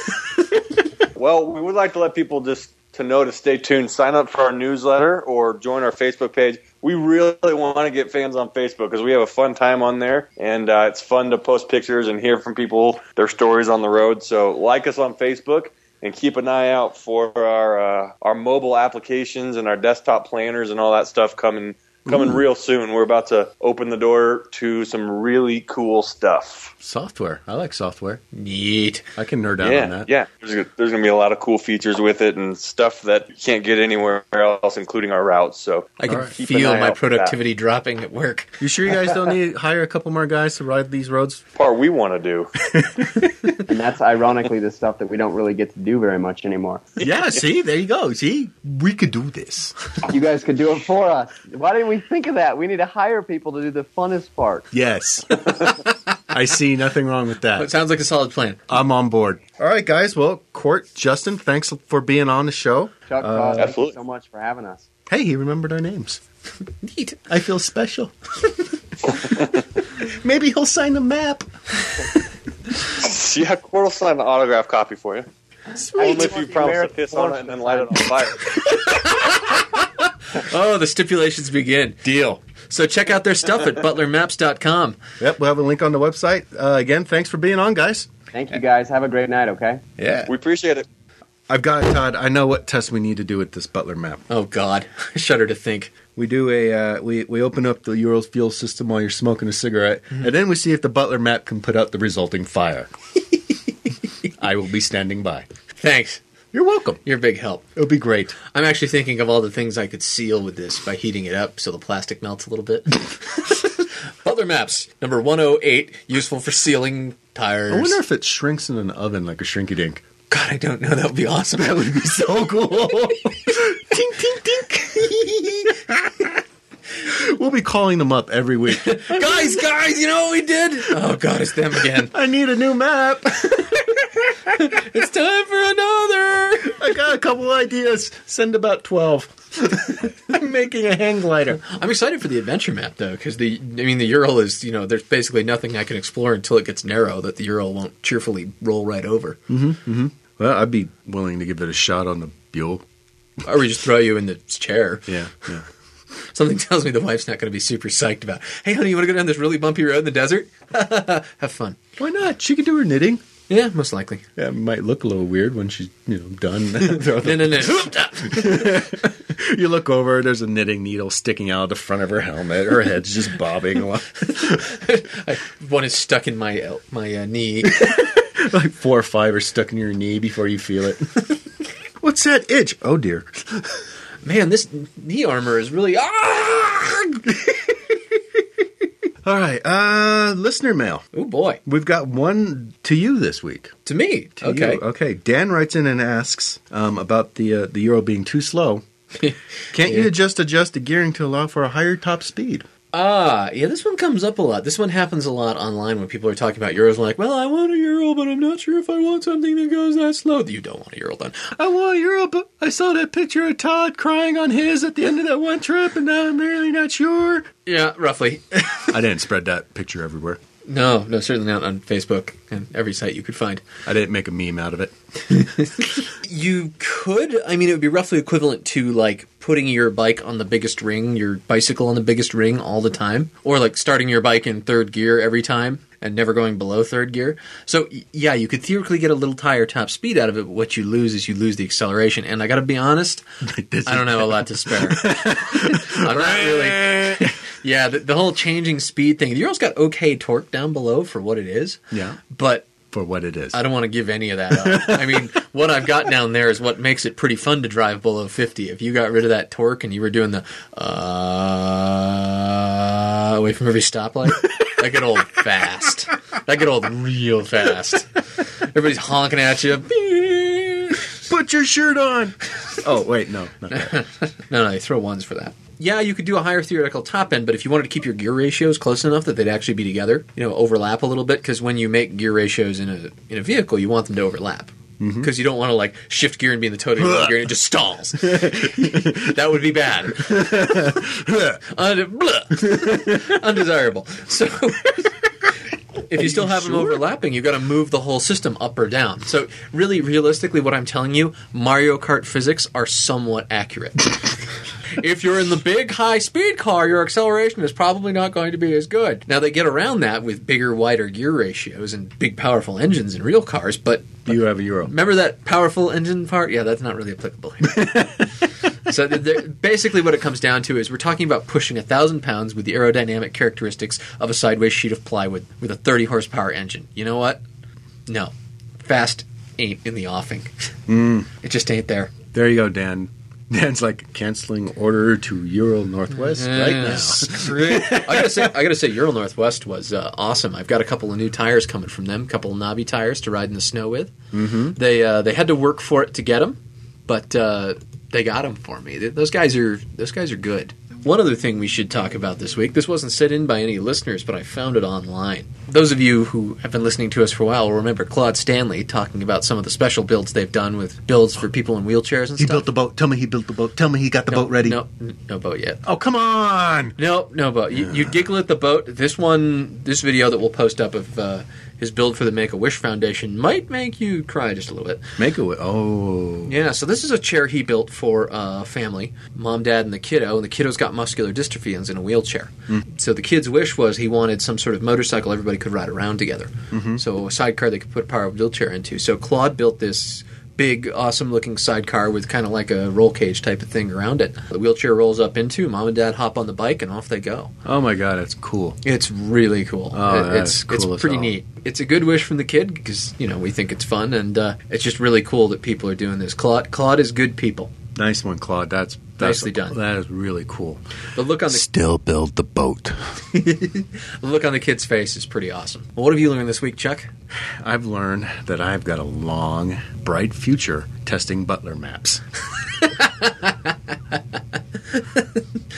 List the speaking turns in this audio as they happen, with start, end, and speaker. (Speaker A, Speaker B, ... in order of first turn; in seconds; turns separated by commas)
Speaker A: 1.1-26.7, Speaker B: 22.0-22.4, Speaker B: 26.8-28.2, Speaker C: 28.3-29.1, Speaker B: 29.1-30.1, Speaker A: 29.6-37.4, Speaker C: 36.0-38.6, Speaker B: 38.6-41.5, Speaker A: 41.5-42.5, Speaker B: 42.7-43.5, Speaker D: 43.6-46.9, Speaker B: 47.0-49.8, Speaker D: 50.1-54.7, Speaker B: 54.7-55.6, Speaker C: 55.4-55.9, Speaker B: 56.3-57.7, Speaker C: 57.5-58.6, Speaker B: 58.7-63.7, Speaker D: 63.1-64.8, Speaker A: 63.5-63.9, Speaker B: 65.1-66.2, Speaker C: 66.8-67.2, Speaker B: 67.3-68.1, Speaker B: 69.0-69.4, Speaker B: 69.9-71.5, Speaker A: 72.9-75.3, Speaker B: 75.8-76.4, Speaker D: 75.8-78.0, Speaker A: 76.0-78.8, Speaker C: 78.6-85.0, Speaker B: 82.0-82.4, Speaker B: 85.2-88.1, Speaker D: 88.3-89.8, Speaker B: 90.0-90.3, Speaker A: 90.2-90.8, Speaker B: 91.5-94.2, Speaker C: 94.3-95.9, Speaker B: 96.2-102.9, Speaker B: 104.4-105.5, Speaker C: 105.8-106.2, Speaker B: 106.5-107.0, Speaker C: 107.0-107.6, Speaker B: 107.7-108.4, Speaker C: 108.5-118.0, Speaker B: 117.7-120.0, Speaker C: 120.3-121.9, Speaker B: 121.6-126.4, Speaker B: 127.0-129.7, Speaker C: 128.7-132.1, Speaker B: 131.8-134.0, Speaker C: 134.5-136.8, Speaker B: 136.7-141.6, Speaker C: 141.6-149.4, Speaker B: 149.5-152.8, Speaker C: 153.4-155.1, Speaker B: 155.1-155.6, Speaker C: 156.3-161.8, Speaker B: 162.0-163.2, Speaker C: 163.5-164.2, Speaker B: 164.3-174.7, Speaker C: 166.8-168.8, Speaker C: 174.4-178.1, Speaker B: 177.6-181.1, Speaker B: 182.0-183.8, Speaker C: 184.2-187.8, Speaker B: 189.2-191.1, Speaker C: 191.1-191.6, Speaker B: 191.7-193.8, Speaker C: 193.8-194.8, Speaker B: 194.4-198.8, Speaker C: 199.2-200.1, Speaker B: 199.7-202.7, Speaker C: 202.9-211.5, Speaker B: 211.6-217.5, Speaker C: 217.7-218.6, Speaker B: 218.9-220.4, Speaker C: 220.6-223.6, Speaker B: 223.8-224.9, Speaker C: 225.3-243.2, Speaker B: 243.4-247.3, Speaker C: 243.8-251.8, Speaker B: 251.9-252.2, Speaker C: 252.3-252.7, Speaker B: 252.9-253.6, Speaker C: 253.5-271.1, Speaker B: 254.5-255.3, Speaker B: 271.3-274.0, Speaker C: 273.7-290.9, Speaker B: 285.0-285.3, Speaker B: 287.0-287.5, Speaker B: 288.2-289.4, Speaker B: 290.1-291.6, Speaker C: 291.6-295.1, Speaker B: 292.6-293.4, Speaker C: 296.1-304.4, Speaker B: 296.1-297.0, Speaker C: 304.9-314.3, Speaker B: 314.2-314.9, Speaker C: 314.9-318.2, Speaker B: 317.7-318.3, Speaker C: 318.9-327.4, Speaker C: 328.1-330.5, Speaker B: 330.9-331.3, Speaker C: 331.4-332.1, Speaker B: 332.3-338.6, Speaker C: 336.1-344.1, Speaker B: 344.3-344.8, Speaker C: 344.7-362.6, Speaker B: 362.4-364.8, Speaker C: 364.3-365.8, Speaker B: 365.8-366.9, Speaker C: 367.0-375.0, Speaker B: 367.7-368.1, Speaker B: 375.2-376.5, Speaker C: 376.4-397.5, Speaker B: 386.7-387.0, Speaker B: 397.6-398.8, Speaker C: 398.8-407.7, Speaker B: 399.9-401.3, Speaker B: 407.9-410.8, Speaker C: 409.2-409.8, Speaker C: 411.1-411.6, Speaker B: 411.4-413.2, Speaker C: 413.3-417.1, Speaker B: 417.6-422.2, Speaker C: 422.8-423.7, Speaker C: 424.9-425.4